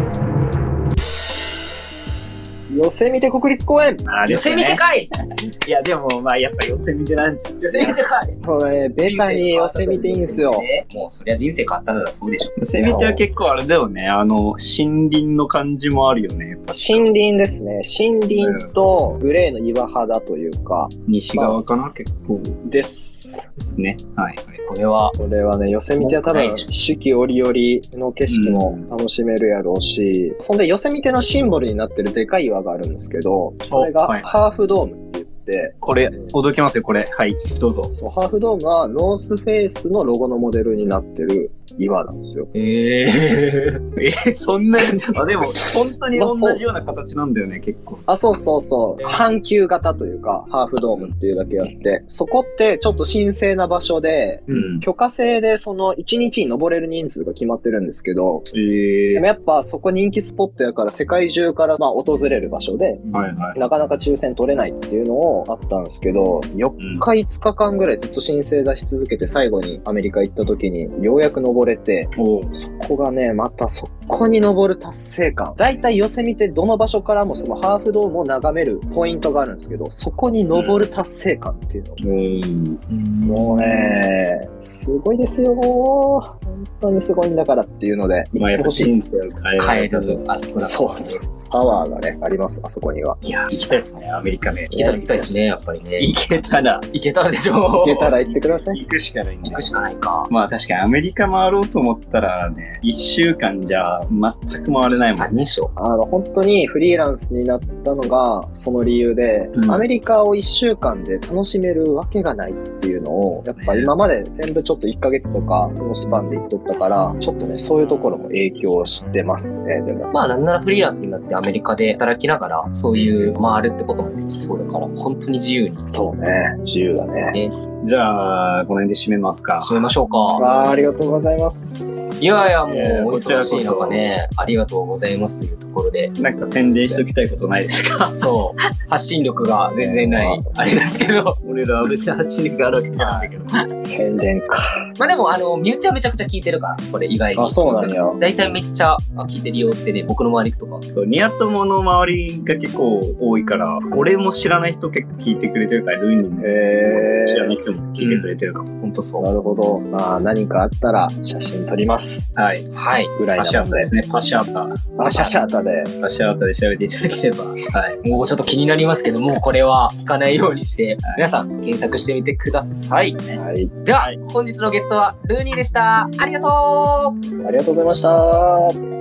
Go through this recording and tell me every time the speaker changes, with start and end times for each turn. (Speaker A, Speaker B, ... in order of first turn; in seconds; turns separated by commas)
Speaker A: 2.7-4.1, Speaker B: 4.0-4.8, Speaker C: 4.2-5.1, Speaker B: 5.4-7.7, Speaker C: 7.6-8.4, Speaker A: 7.7-10.7, Speaker C: 9.0-12.6, Speaker B: 12.6-17.0, Speaker A: 12.8-13.2, Speaker A: 16.7-21.6, Speaker B: 18.4-18.7, Speaker B: 21.1-22.6, Speaker A: 22.6-23.5, Speaker B: 23.6-24.6, Speaker C: 24.7-25.1, Speaker A: 25.2-36.3, Speaker C: 26.0-26.7, Speaker B: 28.3-28.9, Speaker B: 35.8-37.9, Speaker A: 37.9-42.5, Speaker C: 42.5-43.9, Speaker B: 44.0-48.1, Speaker A: 45.0-46.6, Speaker A: 48.1-58.4, Speaker C: 54.5-54.7, Speaker B: 54.5-54.8, Speaker B: 58.5-59.2, Speaker A: 59.1-63.0, Speaker C: 63.0-63.3, Speaker B: 63.1-63.6, Speaker A: 63.5-82.0, Speaker B: 66.8-67.0, Speaker B: 72.1-72.6, Speaker B: 80.5-80.9, Speaker B: 82.0-82.8, Speaker C: 82.9-84.0, Speaker A: 83.2-88.9, Speaker B: 88.4-90.2, Speaker C: 89.6-91.2, Speaker A: 90.6-93.2, Speaker B: 93.2-94.9, Speaker C: 93.5-93.9, Speaker C: 94.7-96.1, Speaker A: 94.7-95.8, Speaker B: 95.9-96.9, Speaker C: 96.9-98.2, Speaker A: 97.8-98.8, Speaker B: 98.2-105.3, Speaker C: 99.4-100.3, Speaker C: 105.1-105.7, Speaker A: 105.8-120.1, Speaker B: 109.5-109.8, Speaker B: 113.5-113.9, Speaker C: 120.1-125.8, Speaker B: 122.9-123.4, Speaker A: 125.9-127.4, Speaker B: 127.8-129.9, Speaker C: 129.6-130.4, Speaker A: 130.4-132.9, Speaker C: 132.2-136.1, Speaker B: 132.8-134.1, Speaker B: 136.2-138.3, Speaker C: 138.1-141.4, Speaker A: 139.8-140.7, Speaker B: 141.4-143.6, Speaker C: 143.0-143.3, Speaker A: 143.7-144.9, Speaker C: 145.0-150.9, Speaker A: 147.3-148.2, Speaker B: 150.9-158.7, Speaker A: 156.4-157.6, Speaker C: 158.0-159.2, Speaker A: 159.2-162.3, Speaker B: 162.4-162.7, Speaker C: 162.7-163.1, Speaker A: 163.2-163.9, Speaker B: 163.4-164.9, Speaker A: 165.0-165.9, Speaker C: 165.1-165.3, Speaker B: 166.0-168.1, Speaker C: 168.0-173.3, Speaker A: 173.4-173.7, Speaker C: 173.8-177.2, Speaker A: 177.4-178.8